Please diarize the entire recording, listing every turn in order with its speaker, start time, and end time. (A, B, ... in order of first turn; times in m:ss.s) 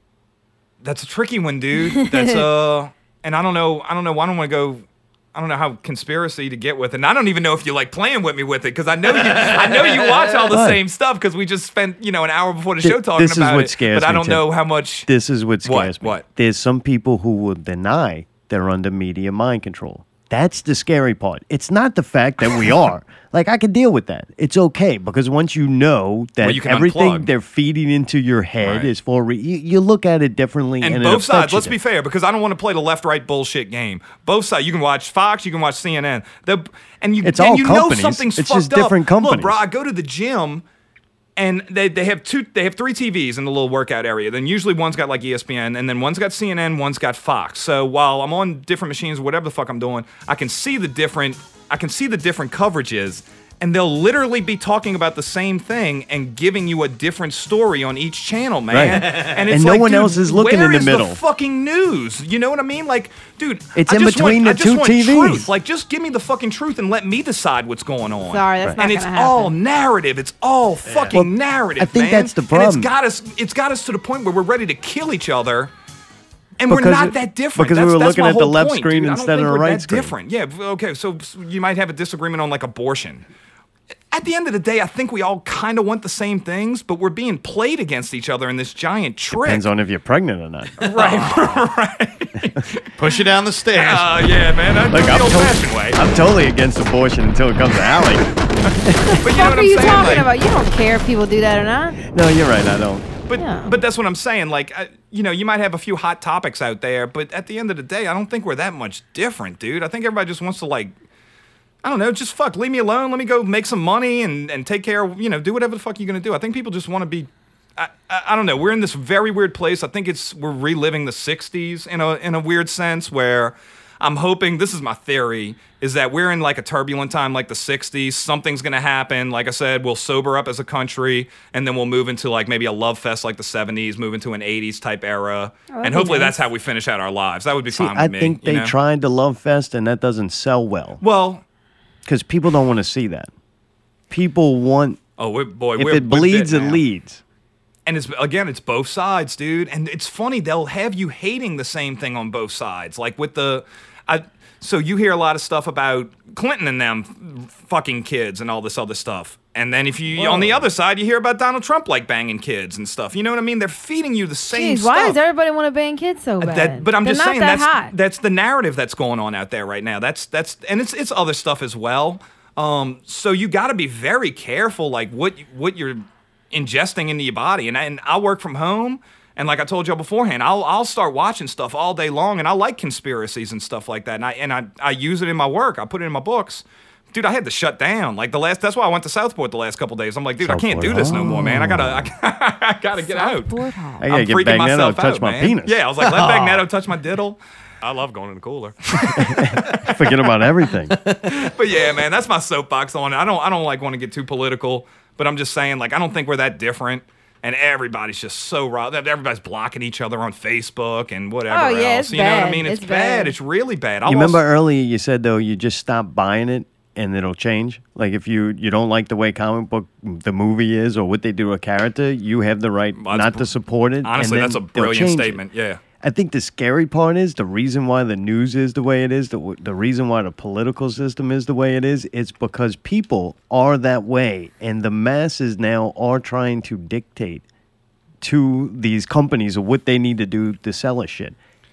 0:00.8-0:15.1 A
0:01.8-0:02.5 B
0:09.4-0:10.1 C
0:10.5-0:10.8 D
0:12.8-0:14.5 D
0:15.0-0:31.8 D
0:15.6-0:16.2 A
0:26.4-0:27.3 A
0:28.6-0:28.9 A
0:30.8-0:40.6 A
0:37.2-0:39.6 D
0:41.4-1:15.7 A
0:58.7-1:01.2 D
0:59.0-0:59.3 C
1:03.8-1:05.5 D
1:08.3-1:09.6 B
1:10.9-1:11.1 C
1:11.1-1:12.9 D
1:16.6-1:23.3 A
1:16.7-1:20.1 D
1:24.1-1:29.7 A
1:29.3-1:30.9 D
1:30.8-1:32.9 A
1:33.0-1:34.3 C
1:33.7-1:36.0 A
1:34.9-1:38.3 D
1:38.8-1:39.2 D
1:39.0-1:42.0 B
1:39.2-1:40.3 A
1:42.0-1:43.1 D
1:43.3-1:50.9 A
1:43.4-1:43.8 B
1:51.8-2:18.8 A
2:15.7-2:16.4 B
2:17.7-2:21.0 D
2:21.0-2:21.4 A
2:22.0-2:23.3 D
2:24.1-2:25.0 D
2:25.2-2:26.8 A
2:25.8-2:27.2 D
2:27.9-2:45.2 A
2:40.2-2:40.7 D
2:44.5-2:47.9 B
2:46.4-3:13.5 A
3:10.4-3:12.1 D
3:13.0-3:14.1 B
3:14.0-3:15.8 D
3:14.0-3:20.0 A
3:16.0-3:16.6 C
3:19.0-3:21.0 D
3:21.1-3:21.3 C
3:21.3-3:34.4 A
3:31.5-3:33.4 B
3:34.1-3:45.4 D
3:43.0-3:43.5 A
3:44.0-3:45.8 A
3:46.0-3:57.4 D
3:58.2-4:01.4 D